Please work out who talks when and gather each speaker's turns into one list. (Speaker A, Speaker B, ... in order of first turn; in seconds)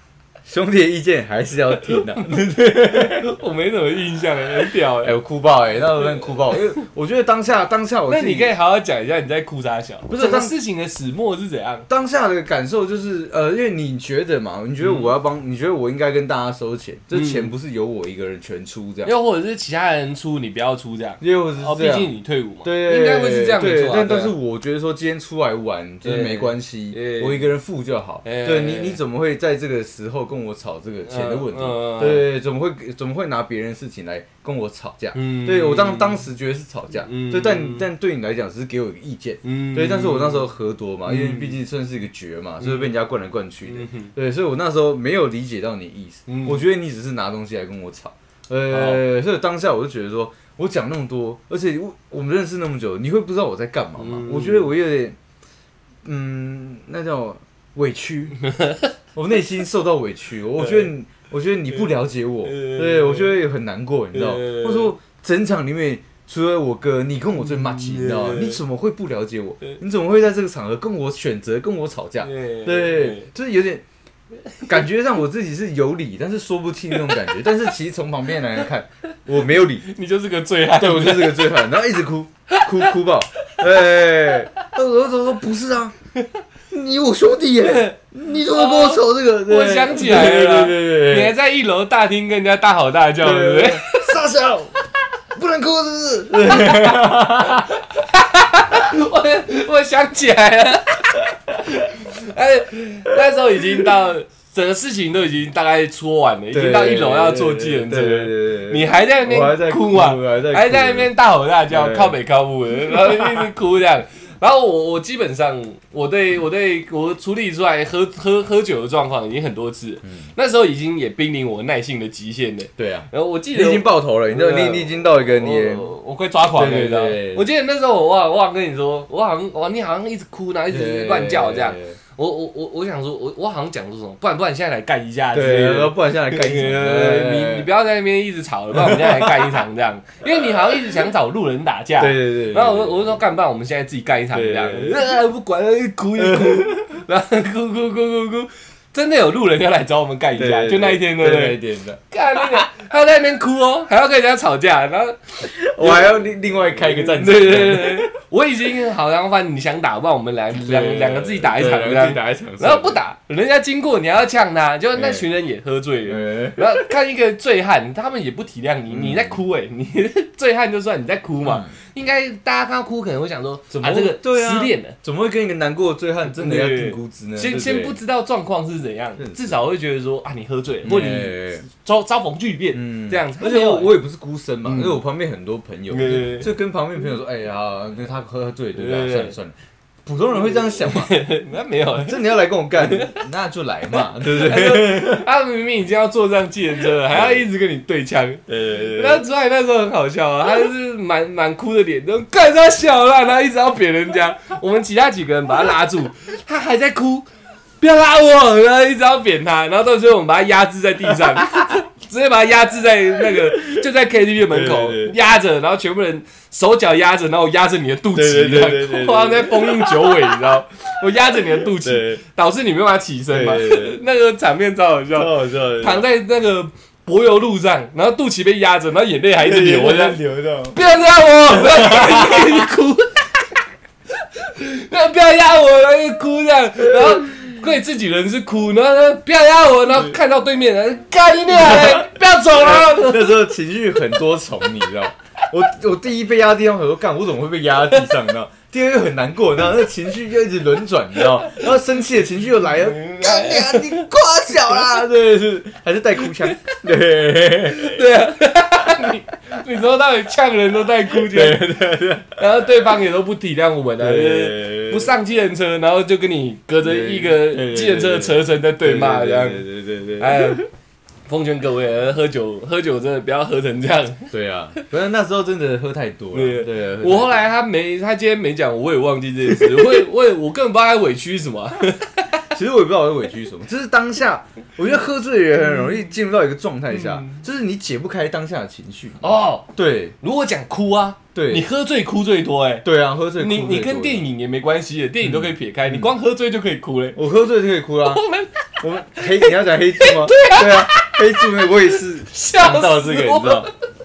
Speaker A: 0.4-3.3, 5.0-8.5, 10.1-10.5, 11.9-19.1, 21.2-22.1, 22.6-55.2, 56.0-58.4, 59.1-73.8, 74.6-79.9, 80.7-85.9, 86.7-91.3, 93.2-94.8, 95.3-97.8, 106.5-111.1, 111.7-112.2, 112.9-113.5, 120.0-120.3, 122.8-125.9, 126.5-127.5, 130.7-132.0, 135.3-137.7, 138.7-139.6, 142.0-143.2, 144.3-145.2, 146.2-146.9, 150.3-152.6, 155.4-158.1, 160.5-163.0, 164.9-165.2, 166.0-166.9, 168.9-169.4, 171.4-171.7, 173.7-177.9, 179.2-179.6, 180.8-181.6, 182.7-191.2, 191.9-195.3, 197.0-197.4, 198.5-199.2, 211.2-211.8, 213.2-213.8, 214.5-215.1, 218.1-220.5, 221.3-222.2, 223.3-224.0, 225.1-226.0, 229.4-230.8, 231.5-232.7, 241.5-258.1, 261.1-262.4, 264.0-265.1, 266.8-270.7, 274.3-277.4, 279.5-280.0, 282.5-290.1, 291.3-291.7, 292.8-294.2, 295.2-296.1, 297.1-298.2, 298.8-303.7
Speaker B: 1.9-5.2, 6.1-6.6, 8.1-11.8, 14.8-15.1, 17.1-17.5, 19.0-24.3, 26.0-27.4, 28.2-29.0, 31.1-32.3, 35.1-36.2, 37.0-37.9, 39.4-40.5, 41.0-41.6, 42.6-42.9, 43.7-44.1, 46.3-46.6, 48.7-49.0, 54.0-54.7, 58.5-58.9, 60.6-60.9, 62.4-63.4, 64.1-64.9, 67.4-68.6, 72.2-73.3, 79.8-81.7, 82.5-82.9, 87.6-94.1, 96.4-156.1, 156.8-174.9, 176.2-184.0, 184.6-185.0, 185.9-186.5, 188.7-189.3, 190.4-193.2, 193.9-207.3, 207.8-230.2, 230.7-233.3, 234.3-243.4, 252.8-254.1, 257.7-261.7, 262.4-269.6, 270.2-270.6, 271.3-274.9, 276.3-282.4, 286.9-287.4, 289.2-289.7, 290.2-292.9, 293.4-297.2, 298.0-303.7